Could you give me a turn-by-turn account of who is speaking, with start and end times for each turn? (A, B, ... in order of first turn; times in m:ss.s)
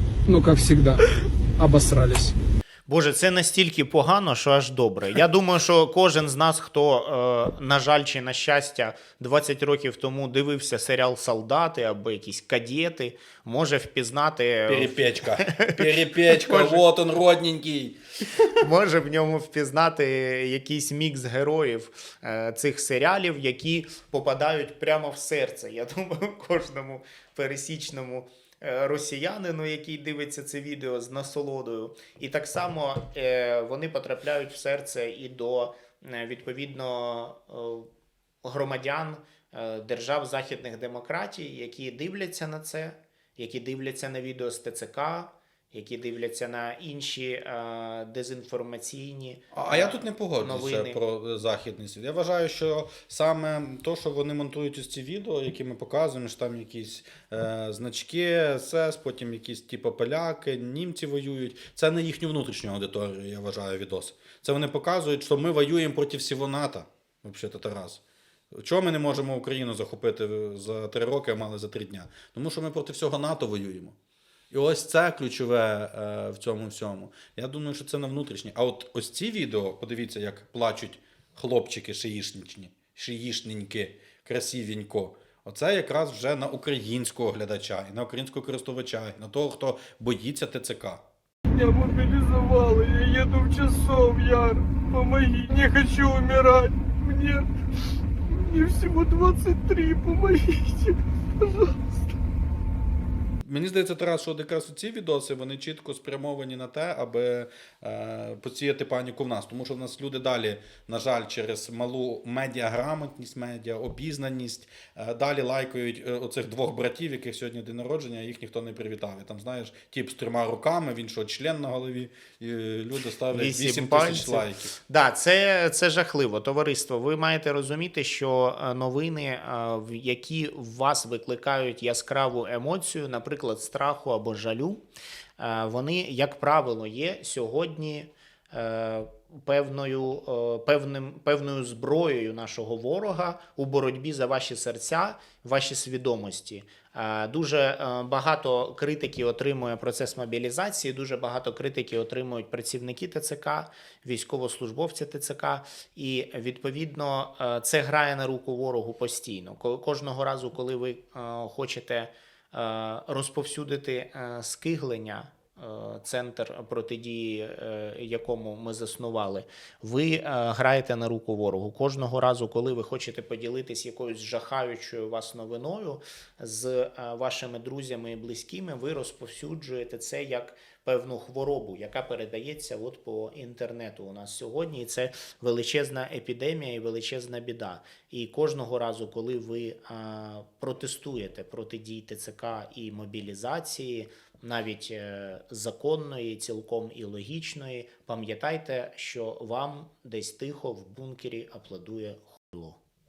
0:00.3-0:02.3 A
0:02.9-0:16.8 B
0:14.7-0:18.6 C
0:18.6-0:37.9 B
0:38.4-0:51.0 B
0:49.5-1:08.0 C
1:08.5-1:14.0 C
1:14.5-1:31.0 C
1:31.5-1:37.5 A
1:38.3-1:42.0 A
1:43.4-2:04.8 C
2:03.3-2:14.8 B
2:15.4-3:22.8 B